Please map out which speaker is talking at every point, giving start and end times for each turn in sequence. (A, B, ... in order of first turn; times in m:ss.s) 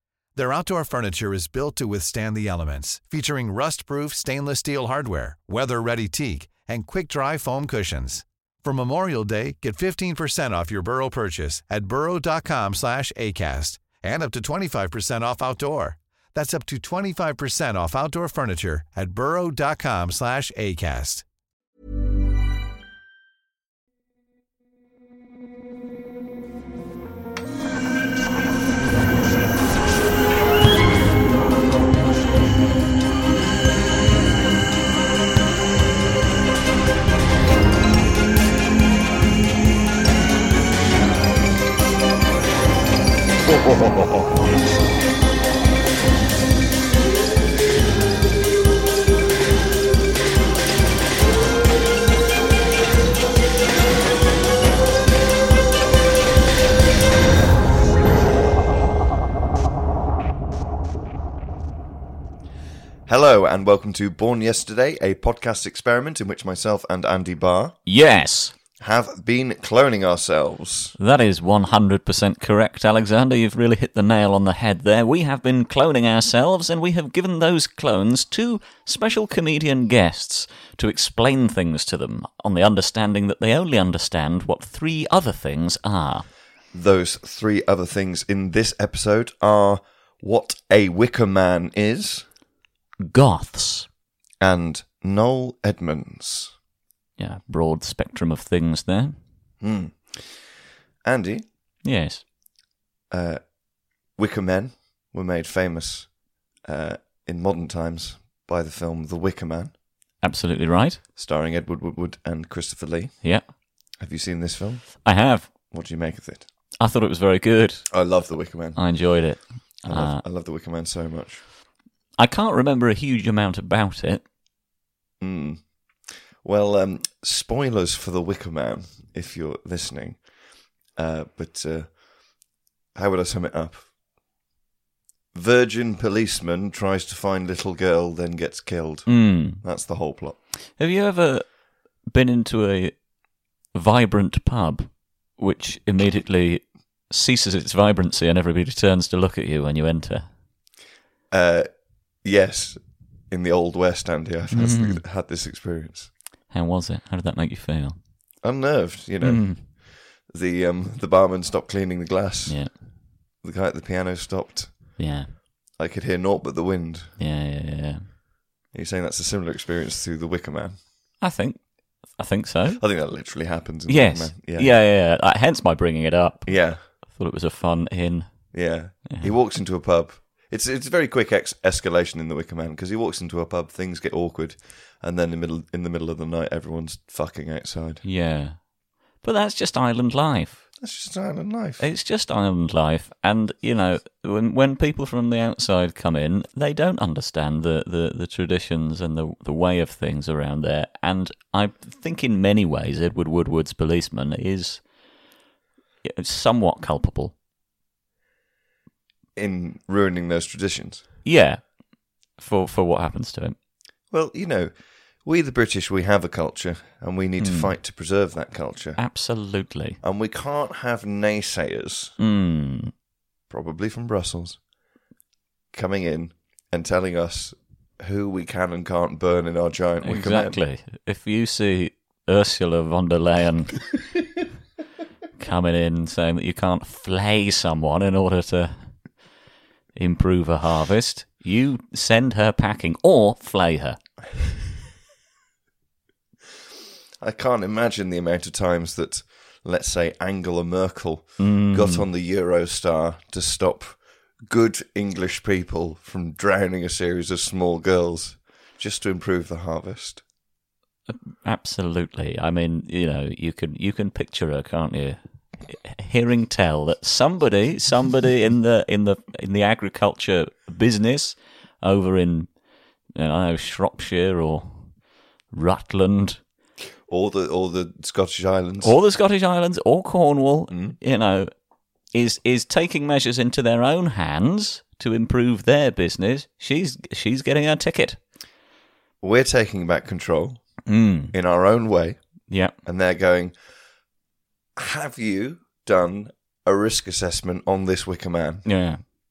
0:00.4-0:21.2 A
1:03.1-1:07.8 B
1:07.9-1:08.5 C
1:08.8-1:11.0 B
1:11.0-1:26.3 C
1:26.7-1:32.3 B
1:33.0-1:33.9 C
1:34.4-1:36.6 B
1:37.2-1:39.2 C
1:39.6-1:40.4 B
1:41.0-1:41.4 B
1:41.8-1:42.2 C
1:43.1-1:49.8 B
1:50.2-1:51.0 C
1:51.2-1:56.5 B
1:55.0-1:55.5 C
1:56.8-1:58.2 C
1:57.9-2:01.4 B
1:58.7-2:00.2 C
2:02.2-2:04.2 C
2:05.2-2:10.3 B
2:10.9-2:13.9 B
2:15.3-2:20.4 B
2:19.1-2:19.6 C
2:20.8-2:23.0 C
2:23.7-2:30.3 C
2:31.3-2:36.1 B
2:34.5-2:35.0 C
2:36.5-2:38.0 C
2:38.4-2:42.7 B
2:39.2-2:39.7 C
2:42.5-2:42.7 C
2:43.4-2:45.0 B
2:45.0-2:45.3 C
2:45.8-2:47.1 B
2:47.2-2:48.1 C
2:48.7-2:50.8 B
2:51.2-2:52.8 C
2:52.8-2:54.7 B
2:53.9-2:58.5 C
2:56.5-2:56.8 B
2:58.5-3:08.0 B
2:59.1-2:59.3 C
3:08.0-3:08.7 C
3:09.2-3:10.7 C
3:10.8-3:11.8 B
3:11.8-3:24.8 C
3:26.0-3:27.3 C
3:29.4-3:31.0 B
3:31.2-3:31.6 C
3:32.4-3:33.6 C
3:34.1-3:34.7 B
3:35.2-3:39.0 B
3:37.4-3:37.7 C
3:39.0-3:40.0 C
3:40.0-3:42.2 B
3:42.2-3:42.9 C
3:43.5-3:44.6 B
3:45.7-3:50.6 B
3:50.0-3:53.9 C
3:55.4-3:59.2 C
4:00.0-4:04.0 C
4:07.2-4:20.2 B
4:11.4-4:12.0 C
4:21.1-4:32.5 C
4:33.2-4:35.0 C
4:35.5-4:36.4 C
4:37.1-4:38.9 B
4:38.8-4:41.5 C
4:40.7-4:41.0 B
4:42.1-4:48.2 C
4:49.2-4:53.6 B
4:50.9-4:51.3 C
4:52.5-4:52.7 C
4:54.8-4:58.6 B
4:58.6-4:59.0 C